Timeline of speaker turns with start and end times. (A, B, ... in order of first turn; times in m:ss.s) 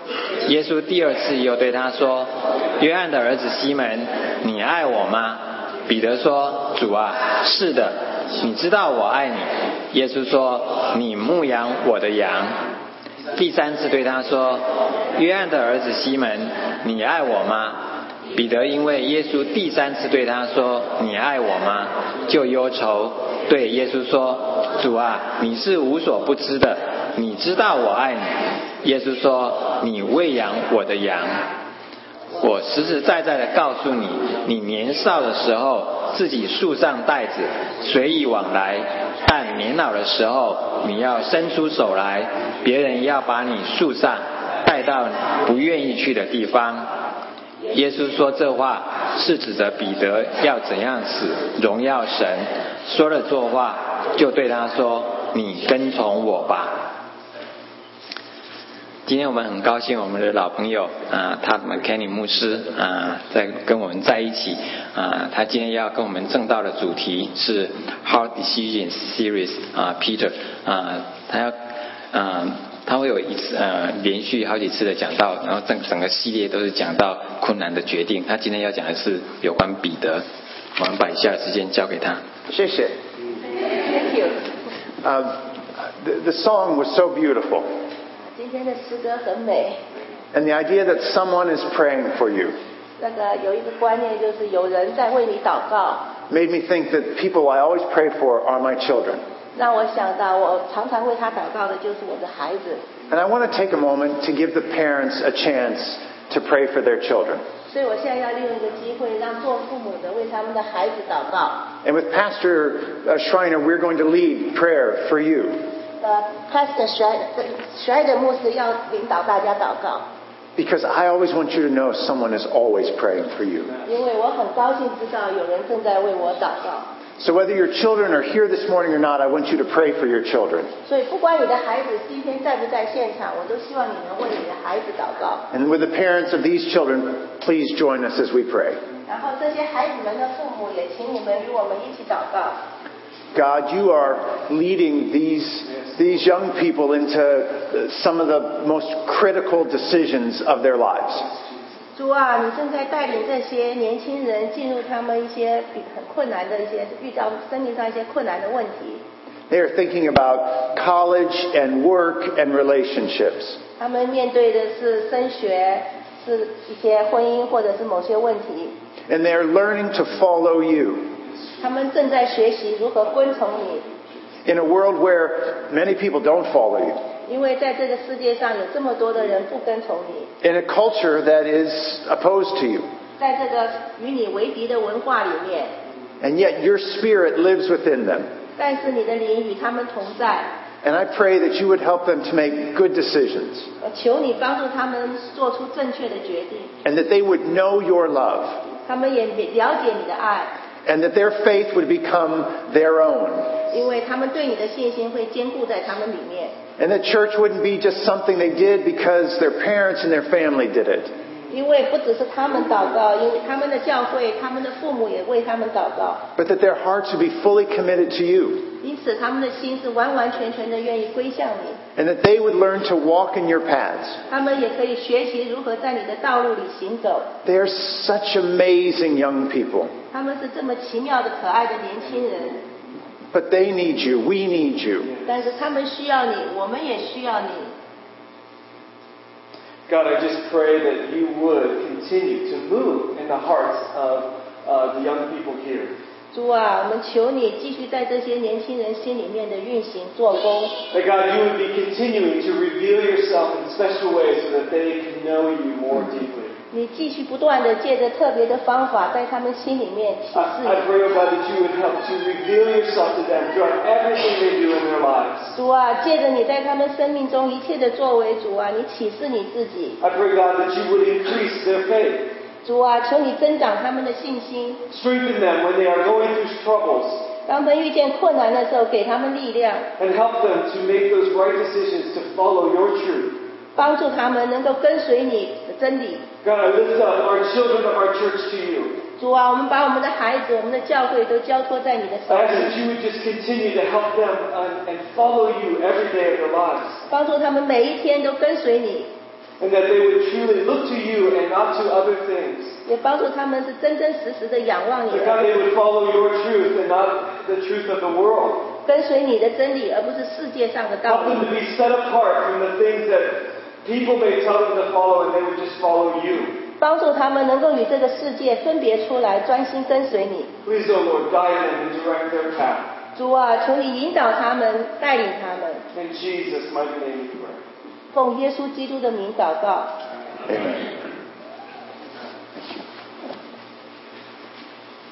0:00.4-0:12.6 A
0:13.3-0:31.4 A
0:32.4-0:46.9 A
0:47.7-0:56.8 A
0:59.0-1:11.5 A
1:12.1-1:20.2 A
1:20.8-1:22.2 A
1:22.5-1:23.0 B
1:23.7-1:24.4 C
1:25.0-1:27.7 B
1:28.3-1:29.8 C
1:30.3-1:32.6 B
1:33.0-1:36.1 C
1:36.3-1:39.2 B
1:39.5-1:42.8 C
1:43.1-1:47.4 B
1:47.7-1:51.7 C
1:51.8-1:55.6 B
1:56.0-2:00.1 C
2:00.6-2:03.7 B
2:03.8-2:06.9 C
2:07.2-2:10.7 B
2:10.8-2:15.4 C
2:15.5-2:18.8 B
2:19.0-2:22.6 C
2:23.3-2:31.3 B
2:32.0-2:39.0 C
2:39.5-2:43.6 B
2:43.8-2:48.7 C
2:49.1-2:51.2 B
2:51.6-2:53.8 C
2:54.4-2:57.0 B
2:57.2-3:00.3 C
3:00.4-3:02.9 B
3:03.2-3:05.7 C
3:06.2-3:08.3 B
3:08.6-3:10.6 C
3:10.8-3:13.7 B
3:13.8-3:16.7 C
3:16.8-3:18.6 B
3:18.8-3:20.5 C
3:20.8-3:23.7 B
3:23.7-3:26.5 C
3:26.8-3:31.1 B
3:31.5-3:36.3 C
3:36.4-3:38.7 B
3:38.8-3:41.8 C
3:42.0-3:44.2 B
3:44.3-3:47.3 C
3:47.4-3:49.9 B
3:50.1-3:52.6 C
3:53.3-3:55.1 B
3:55.0-3:55.3 D
3:55.2-3:57.7 C
3:59.9-4:05.9 D
4:06.3-4:10.7 C
4:10.9-4:16.6 D
4:16.7-4:20.8 C
4:20.3-4:25.5 D
4:25.5-4:30.0 C
4:30.0-4:32.3 D
4:32.6-4:34.8 C
4:34.9-4:37.2 D
4:37.4-4:39.9 C
4:40.0-4:43.4 D
4:43.8-4:46.2 C
4:46.4-4:49.0 D
4:49.2-4:52.7 C
4:52.3-4:57.0 D
4:57.1-4:59.1 C
4:59.6-5:02.8 D
5:02.8-5:05.4 C
5:05.1-5:08.7 D
5:08.8-5:11.5 C
5:11.0-5:16.6 D
5:16.8-5:20.5 C
5:20.6-5:22.9 D
5:23.1-5:25.8 C
5:25.9-5:27.6 D
5:28.1-5:29.9 C
5:30.5-5:30.9 B